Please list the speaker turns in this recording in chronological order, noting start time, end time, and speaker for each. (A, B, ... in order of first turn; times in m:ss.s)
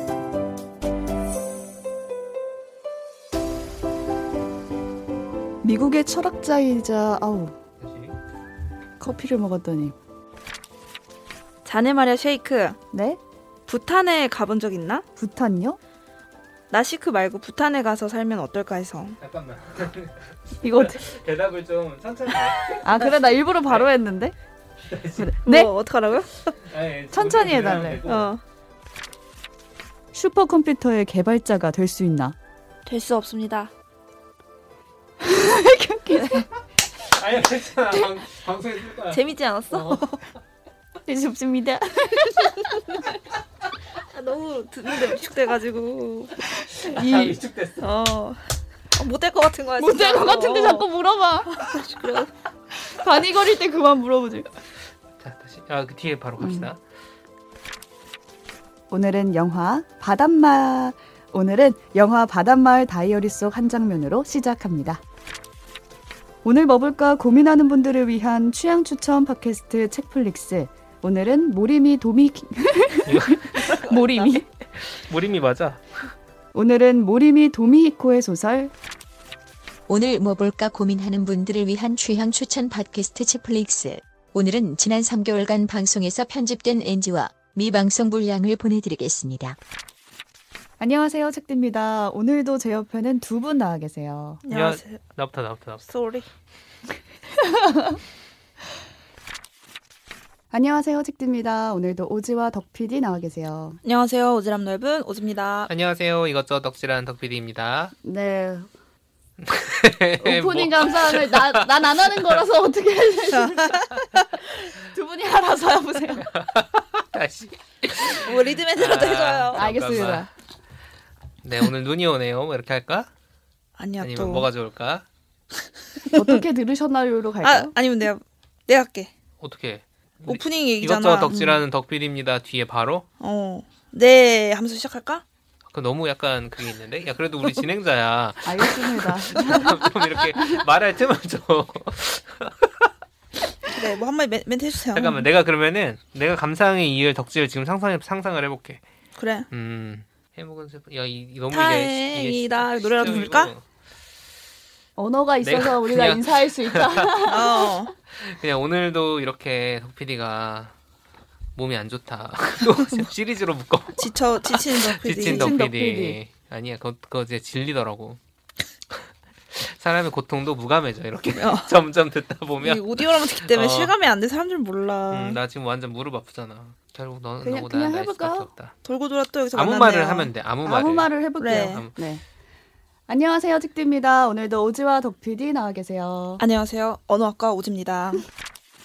0:05.6-0:07.6 A
0:07.8-0:08.2 B
0:09.0-0:10.0 A
0:11.6-0:12.8 C
0:12.9-0:13.2 A
0:13.7-0:15.0 C
0:15.2-0:15.8 A
0:16.7-0:19.2 C
0:19.2-0:22.8 B
0:20.6-0:21.0 A
0:22.5-0:23.1 C
0:22.8-0:24.4 A
0:24.9-0:25.4 B
0:25.2-0:25.7 A
0:25.4-0:26.6 C
0:26.6-0:28.4 B
0:27.1-0:28.0 A
0:28.0-0:28.4 C
0:30.1-0:32.4 A
0:32.9-0:33.7 C
0:35.2-0:36.5 A
0:37.1-0:39.2 B
0:39.1-0:40.2 C
0:39.7-0:40.0 B
0:41.0-0:42.7 A
0:44.1-0:46.4 C
0:46.8-0:47.9 B
0:46.8-0:47.4 A
0:47.8-0:50.9 C
0:49.8-0:51.6 A
0:51.5-0:52.3 C
0:52.8-0:54.5 A
0:55.2-0:56.8 B
0:56.4-0:56.7 A
0:58.9-1:05.0 A
1:06.4-1:14.5 A
1:13.1-1:13.8 B
1:14.8-1:15.8 B
1:16.5-1:18.7 A
1:19.9-1:29.6 D
1:30.8-1:34.4 A
1:34.4-1:35.0 C
1:34.5-1:35.8 B
1:35.9-1:36.3 C
1:37.4-1:38.0 A
1:40.5-1:43.8 A
1:43.8-1:45.7 C
1:45.7-1:47.9 B
1:48.0-1:48.7 A
1:49.4-1:52.4 B
1:50.2-1:53.8 A
1:53.3-1:54.3 C
1:54.8-1:56.3 A
1:56.2-2:00.2 B
1:58.1-1:59.7 C
1:59.5-2:00.3 A
2:01.4-2:03.1 B
2:03.8-2:04.5 C
2:04.0-2:05.0 B
2:06.1-2:06.4 C
2:06.1-2:07.7 A
2:07.4-2:09.1 C
2:09.4-2:13.0 B
2:10.3-2:11.6 C
2:13.2-2:15.2 C
2:15.7-2:22.7 B
2:18.4-2:19.8 A
2:23.7-2:25.3 C
2:24.9-2:28.8 B
2:29.2-2:29.5 C
2:29.5-2:33.6 B
2:31.5-2:33.5 C
2:35.0-2:37.8 A
2:35.4-2:37.2 B
2:37.2-2:37.9 C
2:38.1-2:40.7 B
2:41.6-2:48.2 B
2:42.6-2:43.1 C
2:44.0-2:45.5 C
2:45.2-2:46.2 A
2:49.5-2:53.9 B
2:51.3-2:51.8 C
2:52.6-2:55.4 C
2:55.1-2:58.7 B
2:57.4-2:58.5 A
2:58.8-3:00.3 C
2:59.5-3:01.9 B
3:00.6-3:02.2 A
3:01.4-3:01.8 C
3:03.1-3:06.4 A
3:06.4-3:08.2 C